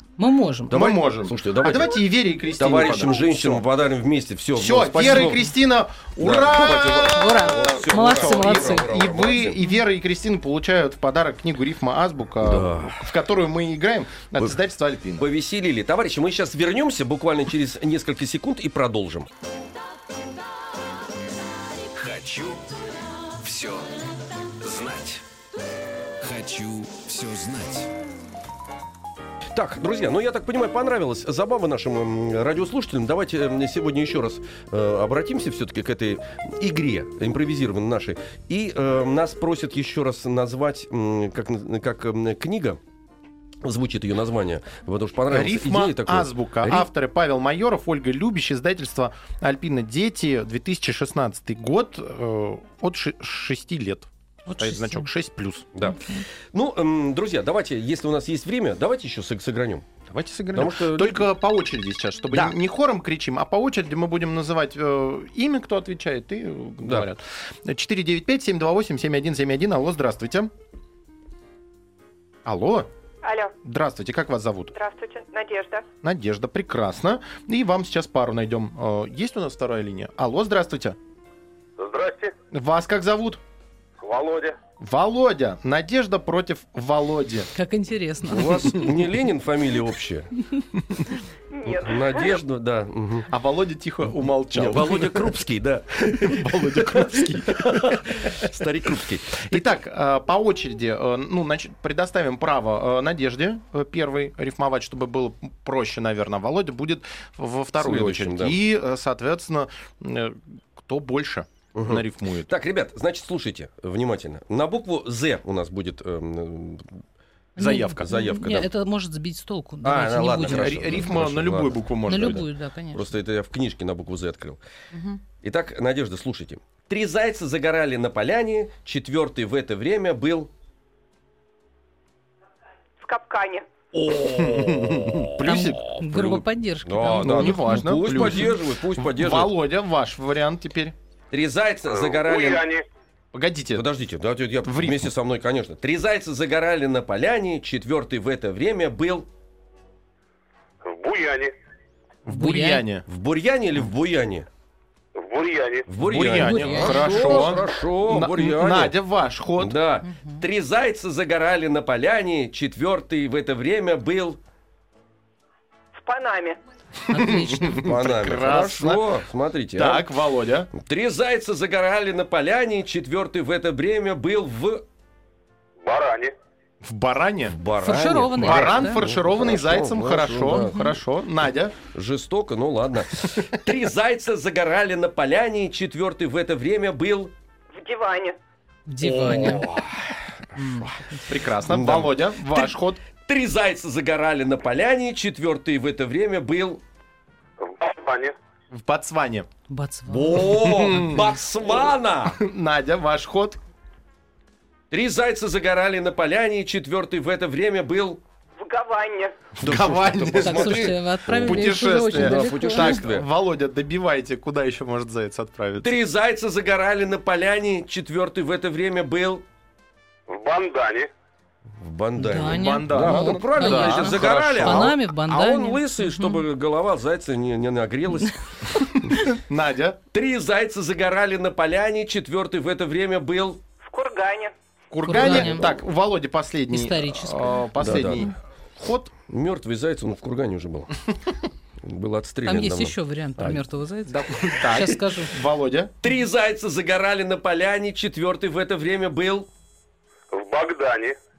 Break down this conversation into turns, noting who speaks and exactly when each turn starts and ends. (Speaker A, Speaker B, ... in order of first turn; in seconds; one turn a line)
Speaker A: 0.2-0.8
Speaker B: 0.7-3.6
Speaker C: 0.7-5.5
Speaker B: 4.5-15.3
Speaker C: 6.2-9.6
Speaker A: 7.1-8.9
Speaker C: 12.4-13.1
Speaker C: 15.2-19.3
Speaker D: 21.7-22.6
Speaker D: 23.2-25.2
Speaker D: 26.2-27.9
Speaker C: 29.5-42.8
Speaker C: 43.6-46.9
Speaker B: 45.3-55.6
Speaker A: 54.5-55.1
Speaker A: 55.8-56.2
Speaker C: 56.5-59.9
Speaker B: 60.1-70.5
Speaker C: 60.5-61.3
Speaker C: 62.3-62.6
Speaker C: 66.8-67.1
Speaker B: 72.4-72.9
Speaker E: 73.2-73.5
Speaker B: 73.6-74.7
Speaker E: 74.7-75.8
Speaker B: 76.0-81.0
Speaker F: 81.8-82.3
Speaker B: 82.5-83.4
Speaker F: 84.0-84.5
Speaker B: 84.8-87.5
Speaker A: 87.5-88.9
Speaker C: 88.3-90.3
Speaker E: 91.5-92.4
Speaker C: 91.6-93.3
Speaker B: 93.3-95.4
Speaker C: 94.5-99.7
Speaker B: 96.1-98.5
Speaker B: 99.4-112.5
Speaker C: 107.8-108.6
Speaker C: 111.7-117.0
Speaker A: 117.5-121.1
Speaker B: 117.6-118.3
Speaker C: 118.0-118.7
Speaker C: 119.8-124.6
Speaker B: 120.4-122.5
Speaker A: 122.1-123.1
Speaker A: 124.9-125.2
Speaker C: 125.4-130.5
Speaker E: 133.0-133.7
Speaker C: 133.9-139.6
Speaker B: 134.3-135.6
Speaker A: 135.4-138.5
Speaker B: 137.1-140.9
Speaker C: 141.3-142.7
Speaker F: 141.9-142.8
Speaker B: 143.3-143.9
Speaker C: 143.7-149.3
Speaker B: 144.7-145.1
Speaker F: 150.8-151.5
Speaker B: 152.2-153.0
Speaker A: 152.3-152.8
Speaker C: 153.1-154.5
Speaker F: 155.1-155.9
Speaker C: 155.9-159.0
Speaker B: 155.9-159.8
Speaker A: 156.4-157.6
Speaker C: 159.6-164.4
Speaker A: 160.1-160.4
Speaker E: 165.9-166.6
Speaker A: 167.1-167.8
Speaker B: 167.1-169.0
Speaker C: 167.8-170.1
Speaker B: 169.7-170.7
Speaker C: 170.7-174.8
Speaker F: 175.8-176.3
Speaker B: 176.8-177.6
Speaker C: 177.5-181.0
Speaker A: 177.8-179.0
Speaker B: 178.3-181.7
Speaker A: 180.5-180.9
Speaker C: 181.9-187.3
Speaker A: 188.9-189.7
Speaker C: 189.0-191.0
Speaker A: 190.6-191.2
Speaker B: 191.3-193.0
Speaker C: 191.6-196.8
Speaker F: 197.6-198.3
Speaker B: 198.7-199.5
Speaker A: 199.7-201.2
Speaker C: 200.1-202.4
Speaker B: 200.5-201.2
Speaker B: 202.3-203.6
Speaker C: 204.9-208.2
Speaker E: 208.7-209.1
Speaker B: 209.6-215.9
Speaker C: 209.6-213.3
Speaker A: 210.3-213.0
Speaker C: 215.8-219.4
Speaker F: 220.3-221.1
Speaker C: 221.8-228.4
Speaker A: 222.2-226.4
Speaker B: 222.4-224.9
Speaker A: 228.2-229.3
Speaker B: 229.1-230.0
Speaker C: 230.1-233.6
Speaker E: 234.0-234.4
Speaker B: 234.9-239.1
Speaker A: 235.1-235.7
Speaker C: 235.1-235.7
Speaker A: 236.7-237.6
Speaker C: 237.8-238.3
Speaker C: 239.1-240.9
Speaker C: 241.8-243.6
Speaker A: 242.4-245.3
Speaker B: 244.1-245.9
Speaker C: 246.0-249.5
Speaker F: 250.3-251.1